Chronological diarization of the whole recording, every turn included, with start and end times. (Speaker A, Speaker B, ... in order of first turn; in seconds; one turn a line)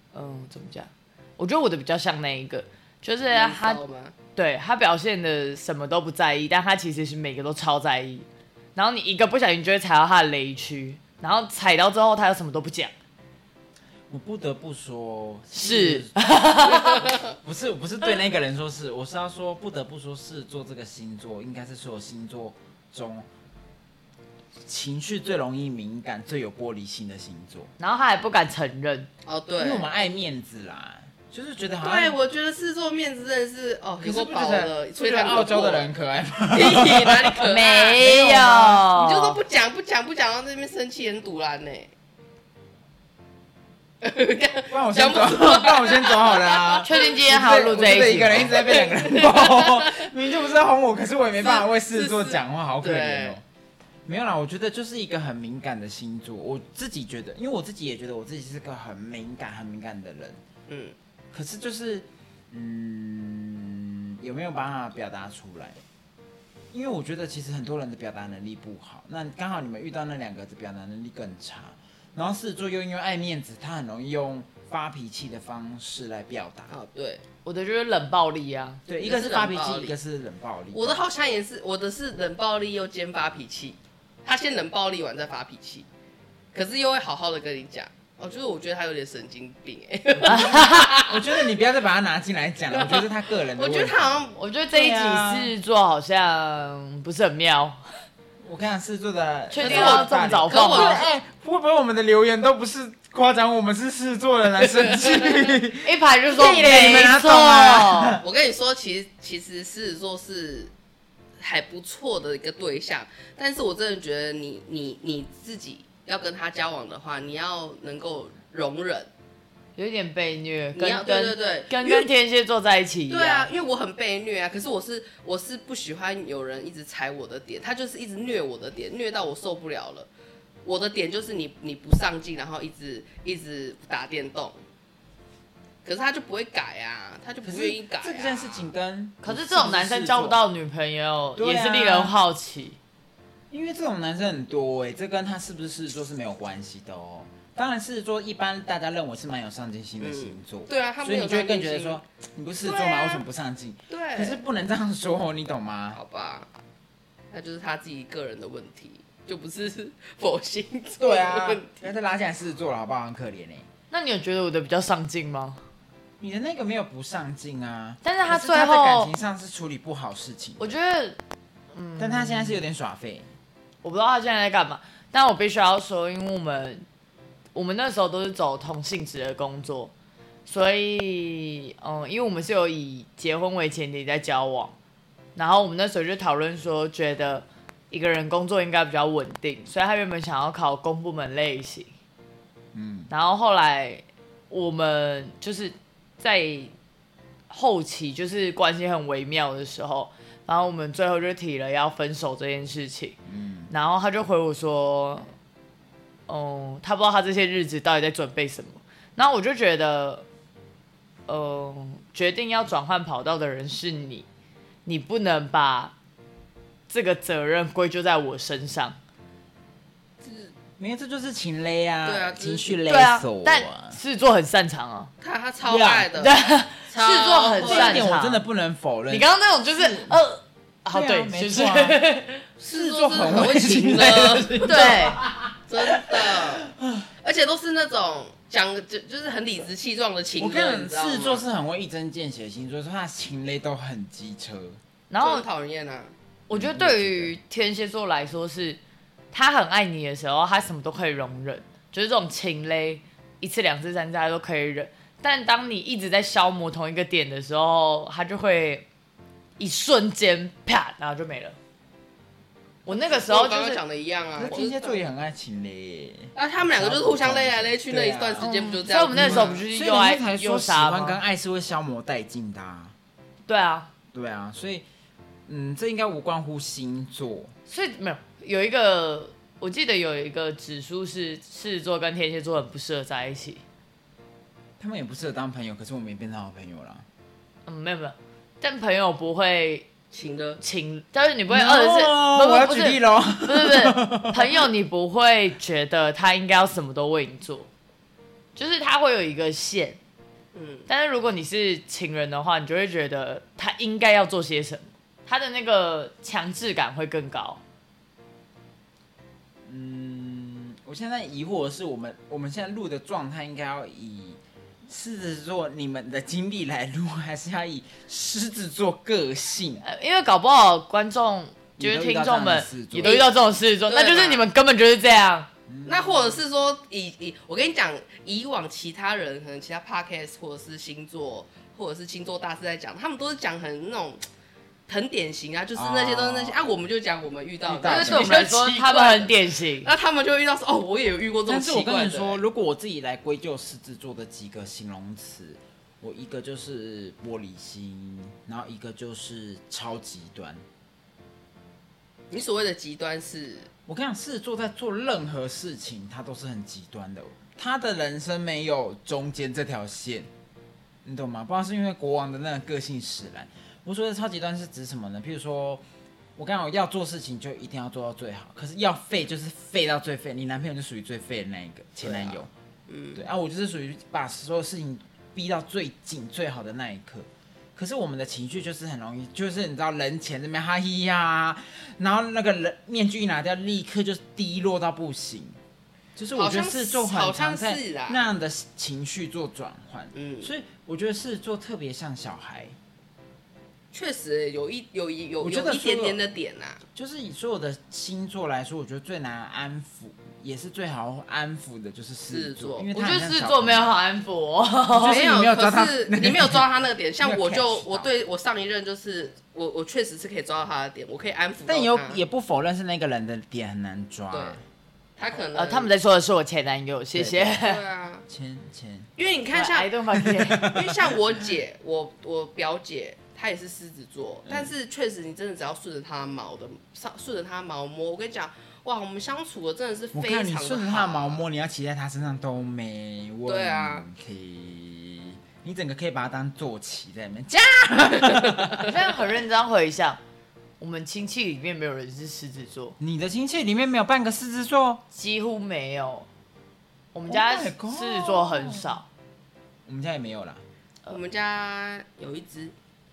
Speaker A: 0.1-3.8
Speaker B: 3.3-4.1
Speaker A: 4.3-12.9
Speaker C: 14.1-23.3
Speaker A: 15.5-17.2
Speaker C: 24.6-27.7
Speaker A: 27.8-29.1
Speaker B: 29.2-29.8
Speaker C: 29.6-32.2
Speaker B: 31.8-35.9
Speaker C: 34.0-38.9
Speaker B: 36.5-38.0
Speaker A: 37.4-39.4
Speaker B: 38.9-41.9
Speaker B: 44.0-50.1
Speaker C: 44.7-53.4
Speaker A: 46.8-48.7
Speaker B: 51.4-53.4
Speaker C: 54.0-60.4
Speaker B: 60.7-60.9
Speaker C: 61.3-65.8
Speaker C: 66.7-76.7
Speaker B: 76.7-77.2
Speaker A: 77.4-78.8
Speaker C: 78.9-81.0
Speaker B: 79.0-79.9
Speaker B: 80.7-85.9
Speaker B: 86.5-91.4
Speaker C: 90.1-95.5
Speaker A: 90.3-90.9
Speaker B: 92.7-94.4
Speaker A: 94.4-97.8
Speaker C: 98.4-108.2
Speaker A: 99.5-101.0
Speaker B: 99.5-101.0
Speaker B: 104.6-105.5
Speaker A: 105.8-108.2
Speaker B: 108.2-110.7
Speaker B: 111.4-119.1
Speaker A: 119.8-123.5
Speaker B: 120.7-122.1
Speaker B: 123.1-130.1
Speaker B: 130.6-134.6
Speaker B: 135.8-138.7
Speaker C: 137.4-140.4
Speaker A: 139.2-142.8
Speaker C: 141.3-142.1
Speaker C: 143.5-156.0
Speaker B: 150.0-152.0
Speaker B: 152.6-153.2
Speaker B: 153.9-154.4
Speaker B: 155.9-156.5
Speaker B: 157.3-161.8
Speaker C: 161.0-163.7
Speaker A: 163.9-165.6
Speaker C: 166.2-170.8
Speaker A: 168.0-169.1
Speaker A: 170.6-171.2
Speaker A: 171.7-172.6
Speaker C: 172.0-173.3
Speaker A: 173.8-176.8
Speaker A: 177.5-179.9
Speaker A: 180.4-184.7
Speaker A: 185.3-191.9
Speaker C: 192.7-193.1
Speaker A: 193.1-196.7
Speaker A: 197.5-203.2
Speaker C: 203.3-203.7
Speaker A: 203.7-205.3
Speaker A: 206.3-210.2
Speaker A: 211.3-214.2
Speaker A: 214.8-215.9
Speaker A: 216.9-219.0
Speaker B: 220.2-220.5
Speaker C: 220.8-224.0
Speaker B: 222.0-222.8
Speaker A: 222.9-225.1
Speaker B: 225.2-226.4
Speaker C: 225.6-226.1
Speaker A: 226.2-228.4
Speaker B: 226.9-228.0
Speaker C: 227.6-230.2
Speaker A: 229.1-232.4
Speaker C: 230.9-232.0
Speaker C: 232.6-237.1
Speaker B: 232.6-236.7
Speaker A: 234.6-235.2
Speaker B: 237.2-241.4
Speaker C: 240.4-244.8
Speaker A: 245.1-245.4
Speaker B: 245.2-246.1
Speaker A: 246.5-248.8
Speaker C: 246.5-247.3
Speaker A: 249.3-258.9
Speaker A: 259.6-261.6
Speaker A: 262.9-263.8
Speaker B: 262.9-265.0
Speaker C: 264.4-268.5
Speaker B: 266.3-269.6
Speaker A: 268.4-271.2
Speaker C: 269.1-272.9
Speaker A: 273.5-273.9
Speaker C: 274.1-274.8
Speaker C: 275.5-277.5
Speaker A: 277.7-283.6
Speaker C: 284.8-287.1
Speaker A: 287.6-289.9
Speaker B: 290.1-290.6
Speaker A: 290.6-297.7
Speaker C: 291.5-294.7
Speaker A: 298.6-300.0
Speaker B: 300.5-300.9
Speaker A: 300.9-307.6
Speaker C: 309.6-319.8
Speaker A: 319.8-325.5
Speaker C: 321.8-323.2
Speaker B: 323.0-323.3
Speaker B: 323.9-324.4
Speaker C: 325.7-326.4
Speaker B: 325.9-334.2
Speaker B: 334.9-342.4
Speaker C: 335.7-336.6
Speaker C: 337.6-338.4
Speaker A: 337.8-339.9
Speaker C: 341.5-350.6
Speaker B: 352.3-353.7
Speaker C: 353.9-360.3
Speaker C: 361.0-365.8
Speaker C: 366.4-372.5
Speaker B: 372.0-373.2
Speaker C: 373.1-385.6
Speaker C: 386.1-392.8
Speaker B: 386.3-388.3
Speaker B: 390.1-390.5
Speaker B: 393.9-396.8
Speaker C: 395.4-396.2
Speaker C: 396.9-403.9
Speaker B: 402.3-402.9
Speaker A: 402.9-405.2
Speaker C: 404.9-406.6
Speaker B: 405.0-412.2
Speaker C: 407.2-408.1
Speaker C: 411.6-414.6
Speaker B: 414.3-414.6
Speaker B: 415.2-415.9
Speaker A: 415.5-417.8
Speaker C: 417.1-417.6
Speaker B: 417.6-418.2
Speaker C: 418.3-419.1
Speaker B: 419.2-419.9
Speaker A: 419.5-420.8
Speaker C: 420.1-421.1
Speaker B: 420.6-431.4
Speaker C: 424.5-424.7
Speaker C: 430.1-439.0
Speaker B: 433.4-434.1
Speaker B: 438.4-438.8
Speaker A: 438.8-440.2
Speaker A: 440.8-442.9
Speaker C: 443.0-445.0
Speaker A: 445.1-446.3
Speaker A: 447.1-449.1
Speaker C: 447.3-449.0
Speaker C: 449.9-450.6
Speaker B: 451.1-452.7